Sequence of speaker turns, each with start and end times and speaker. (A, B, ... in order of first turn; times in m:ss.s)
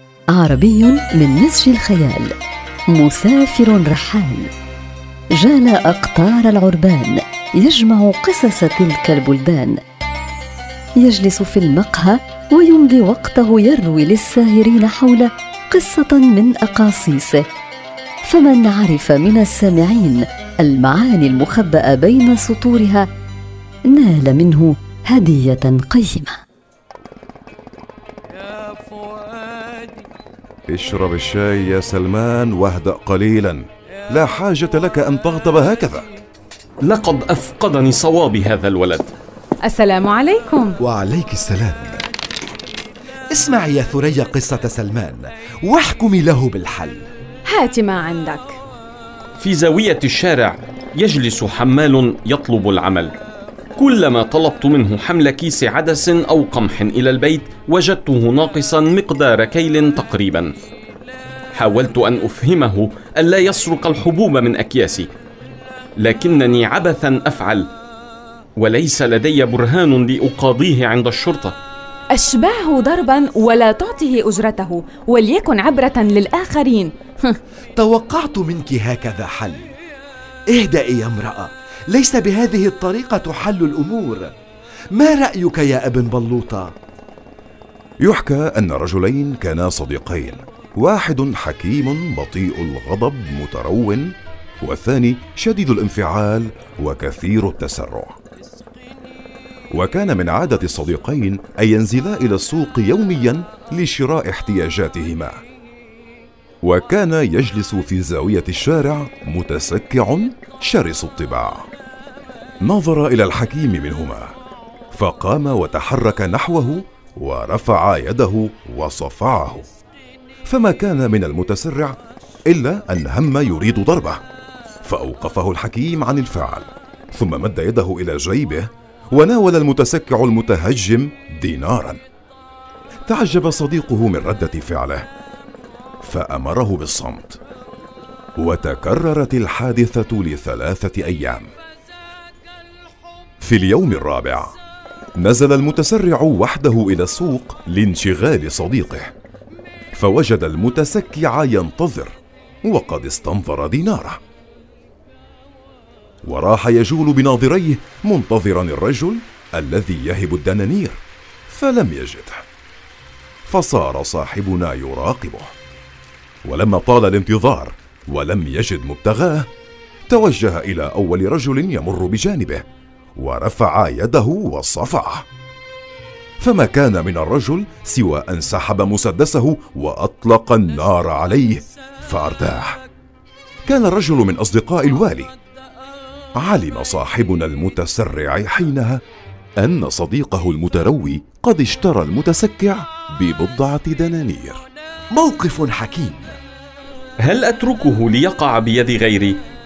0:00.3-0:02.3 A
0:02.9-0:04.5 A
0:05.4-0:09.8 A
0:11.0-0:17.4 A
0:18.2-0:23.0 A
0:23.9-0:26.4 A
0:30.7-0:36.1 B
0:36.8-0:39.1 C
0:39.6-0:40.8 D
0:40.8-0:42.0 E
0:43.3-0:47.1 E
0:47.4-0:48.6 D
0:49.4-0:53.2 C
0:53.8-1:00.5 C
1:01.5-1:05.1 C
1:06.0-1:07.7 C
1:08.6-1:11.6 C
1:12.1-1:17.4 D
1:17.8-1:19.7 E
1:20.5-1:24.3 E
1:24.9-1:26.7 E
1:28.0-1:38.2 B
1:39.7-1:45.4 B
1:46.6-1:51.7 B
1:52.6-1:54.3 B
1:54.9-1:59.6 B
2:00.5-2:02.0 B
2:02.5-2:04.2 B
2:04.8-2:12.0 B
2:13.1-2:15.1 B
2:16.0-2:17.4 B
2:18.4-2:21.5 B
2:23.4-2:24.6 B
2:25.2-2:29.1 B
2:29.9-2:34.2 B
2:36.2-2:42.4 B
2:43.4-2:45.5 B
2:46.4-2:49.5 B
2:50.1-2:52.6 B
2:53.2-2:55.2 B
2:56.4-3:02.8 B
3:03.6-3:05.3 B
3:06.4-3:09.0 B
3:09.6-3:14.6 B
3:15.1-3:16.4 E
3:17.2-3:19.4 C